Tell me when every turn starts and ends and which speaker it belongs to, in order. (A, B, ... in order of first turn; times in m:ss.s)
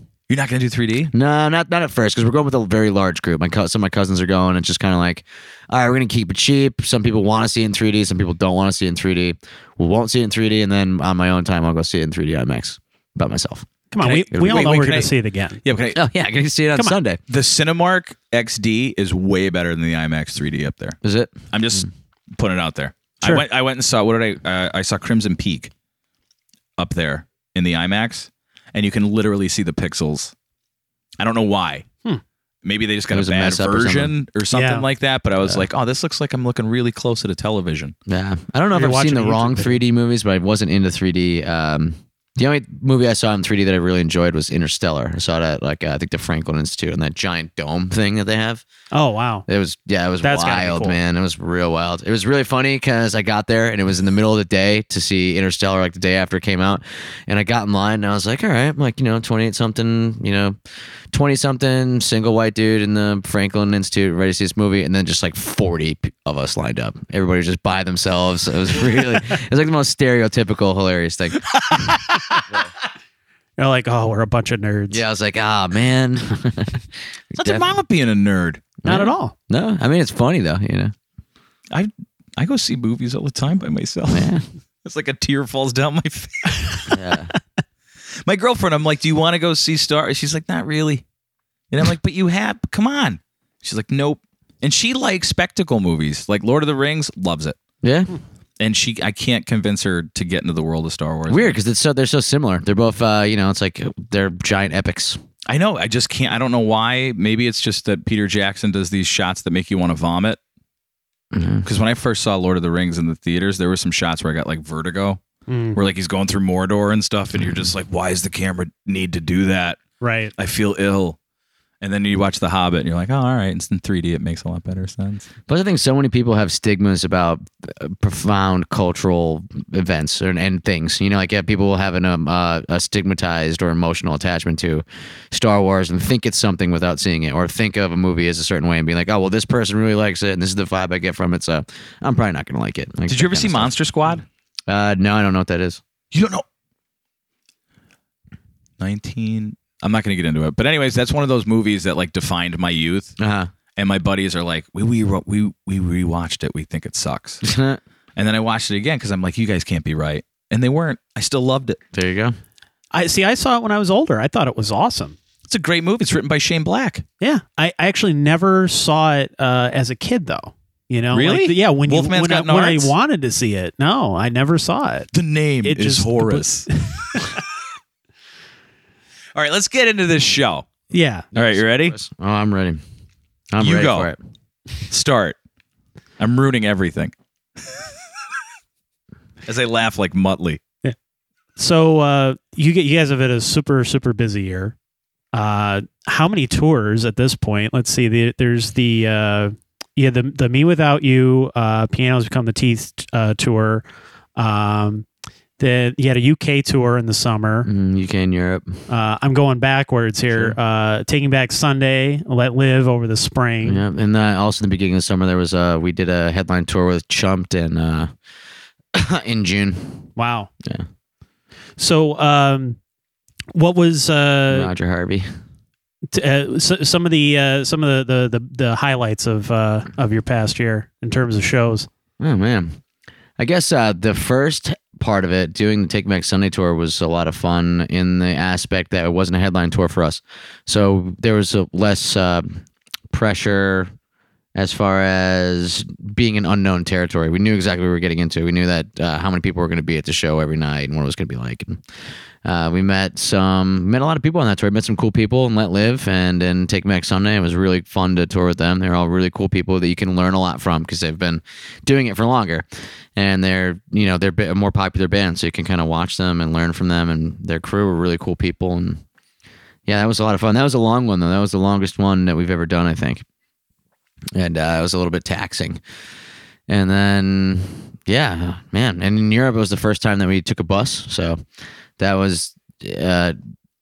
0:00.3-0:01.1 A
0:01.1-0:13.7 B
0:13.9-0:15.6 C
0:14.0-0:15.1 A
0:14.3-0:14.7 B
0:15.6-0:16.0 A
0:16.0-0:17.2 B
0:17.3-0:21.0 A
0:21.0-0:21.8 B
0:21.5-0:25.7 A
0:26.8-0:30.3 A
0:31.2-0:31.9 A
0:32.6-0:38.0 A
0:33.1-0:34.1 B
0:34.5-0:34.8 C
0:38.1-0:48.6 B
0:38.7-0:39.8 C
0:48.9-0:49.5 C
0:49.5-1:00.6 B
0:50.2-0:51.0 C
1:01.1-1:11.8 B
1:11.4-1:12.5 A
1:13.6-1:15.0 C
1:14.9-1:17.7 B
1:17.4-1:18.7 A
1:18.8-1:20.9 B
1:18.9-1:19.3 C
1:21.7-1:24.3 A
1:24.1-1:24.4 B
1:24.8-1:26.9 A
1:26.9-1:27.3 B
1:28.2-1:31.0 A
1:31.7-1:37.6 A
1:37.8-1:38.1 B
1:38.6-1:41.6 A
1:41.3-1:45.2 B
1:45.5-1:50.4 A
1:51.3-1:51.7 B
1:51.6-1:55.2 A
1:55.5-1:55.8 C
1:55.7-1:59.8 A
1:57.4-1:57.7 B
2:00.0-2:00.3 C
2:00.4-2:01.2 A
2:01.8-2:05.3 A
2:05.5-2:23.7 B
2:23.1-2:24.2 A
2:24.7-2:25.8 B
2:26.1-2:26.4 A
2:28.8-2:33.2 A
2:33.2-2:33.5 B
2:33.8-2:37.4 A
2:37.4-2:37.8 B
2:38.2-2:41.8 A
2:41.9-2:42.4 B
2:42.9-2:45.2 C
2:45.5-2:47.0 A
2:47.2-2:55.1 C
2:51.1-2:52.9 A
2:55.1-2:56.7 A
2:55.6-2:57.4 C
2:59.4-3:00.7 A
3:00.9-3:01.3 C
3:01.3-3:02.0 A
3:01.4-3:02.8 B
3:03.5-3:04.2 B
3:03.6-3:04.1 A
3:04.9-3:05.4 A
3:06.2-3:07.1 A
3:09.5-3:10.6 A
3:11.6-3:14.8 C
3:15.3-3:23.8 C
3:24.4-3:25.1 C
3:25.6-3:27.7 C
3:27.6-3:28.7 B
3:28.9-3:33.8 C
3:33.6-3:38.1 B
3:38.9-3:40.1 B
3:40.2-3:40.5 C
3:41.8-3:42.8 C
3:43.5-3:44.7 C
3:44.5-3:45.3 B
3:46.1-3:51.9 C
3:52.2-3:52.8 B
3:53.4-4:03.9 B
4:04.6-4:11.8 B
4:12.4-4:29.0 B
4:29.9-4:33.2 B
4:34.4-4:35.8 B
4:36.7-4:41.4 B
4:42.0-4:43.4 B